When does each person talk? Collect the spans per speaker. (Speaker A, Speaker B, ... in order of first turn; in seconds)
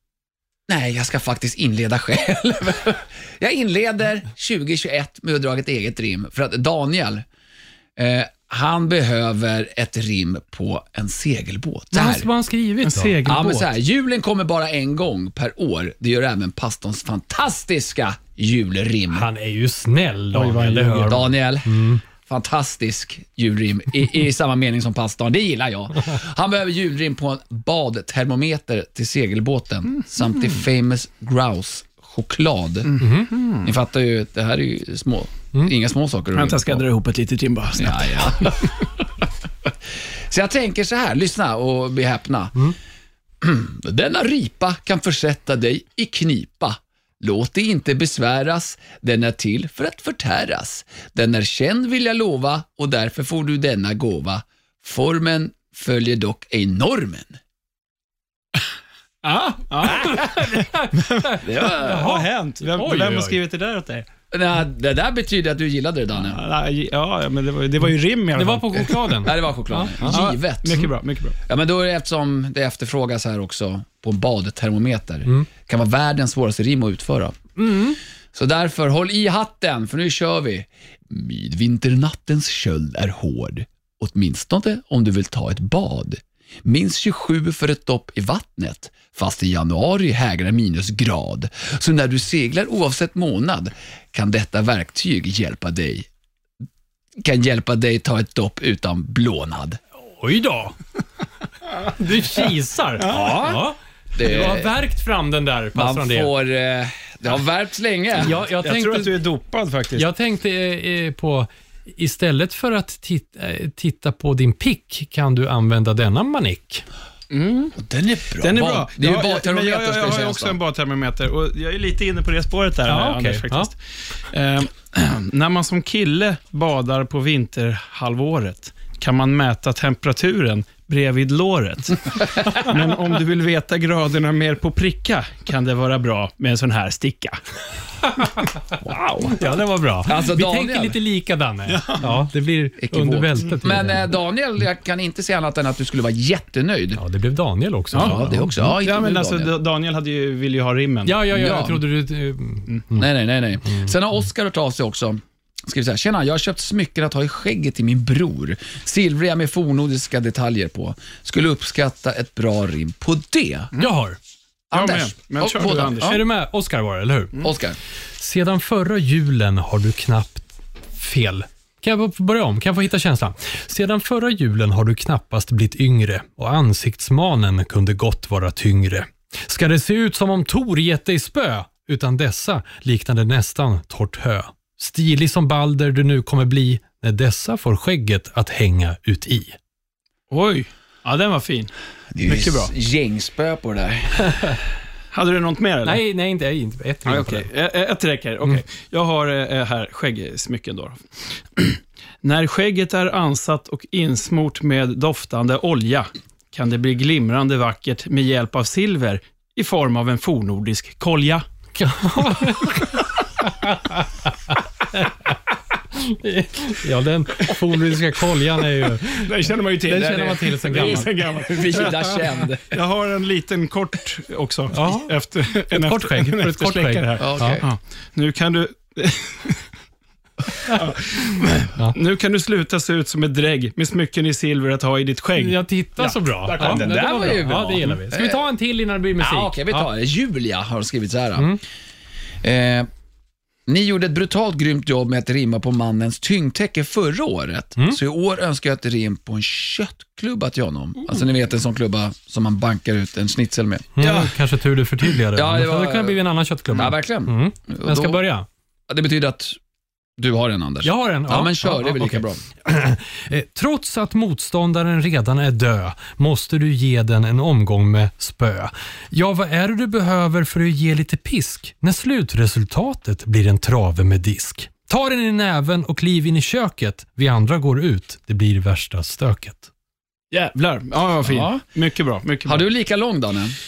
Speaker A: 0.7-7.2, 8.0-12.3, 13.2-19.3, 21.0-36.8, 37.8-38.7, 40.3-42.7, 43.4-57.4, 61.4-62.1, 64.3-66.4, 69.2-70.9, 71.5-77.4, 78.3-96.1, 97.2-99.8, 104.2-104.7, 105.8-108.3, 117.8-120.6, 138.8-139.4, 140.1-141.0, 142.8-147.0, 148.0-149.5, 151.3-151.8, 152.9-163.7, 164.7-166.2, 167.4-167.8, 192.1-194.2, 220.7-222.8, 227.2-227.7, 236.6-238.5, 239.2-241.6, 242.4-242.9, 243.7-254.1, 255.3-256.2, 256.7-258.2, 258.9-259.6, 260.2-262.4, 281.2-281.6, 282.5-283.6
Speaker B: 11.9-13.2, 19.1-22.0, 33.0-33.3, 59.9-63.4, 68.3-70.2, 77.6-78.0, 100.1-100.8, 101.8-106.3, 108.2-109.2, 110.0-116.8, 122.9-123.7, 138.1-138.4, 139.3-144.1, 147.0-148.7, 151.1-153.1, 163.8-164.2, 166.0-167.4, 168.2-189.6, 194.3-194.6, 195.8-197.5, 211.8-215.3, 215.9-221.1, 224.7-225.1, 225.7-227.6, 230.7-232.0, 235.4-239.9, 254.0-258.5, 260.8-279.7
Speaker C: 12.8-13.7, 20.3-21.2, 33.0-33.7, 36.3-38.7, 59.2-64.1, 66.2-69.2, 70.0-71.4, 103.0-103.6, 108.6-110.1, 117.3-117.8, 118.4-137.4, 141.7-142.1, 147.9-151.3, 164.7-166.2, 190.3-191.7, 192.2-192.7, 195.1-196.0, 197.1-201.0, 201.6-211.4, 219.1-229.7, 230.6-237.4, 254.0-254.3, 280.3-282.7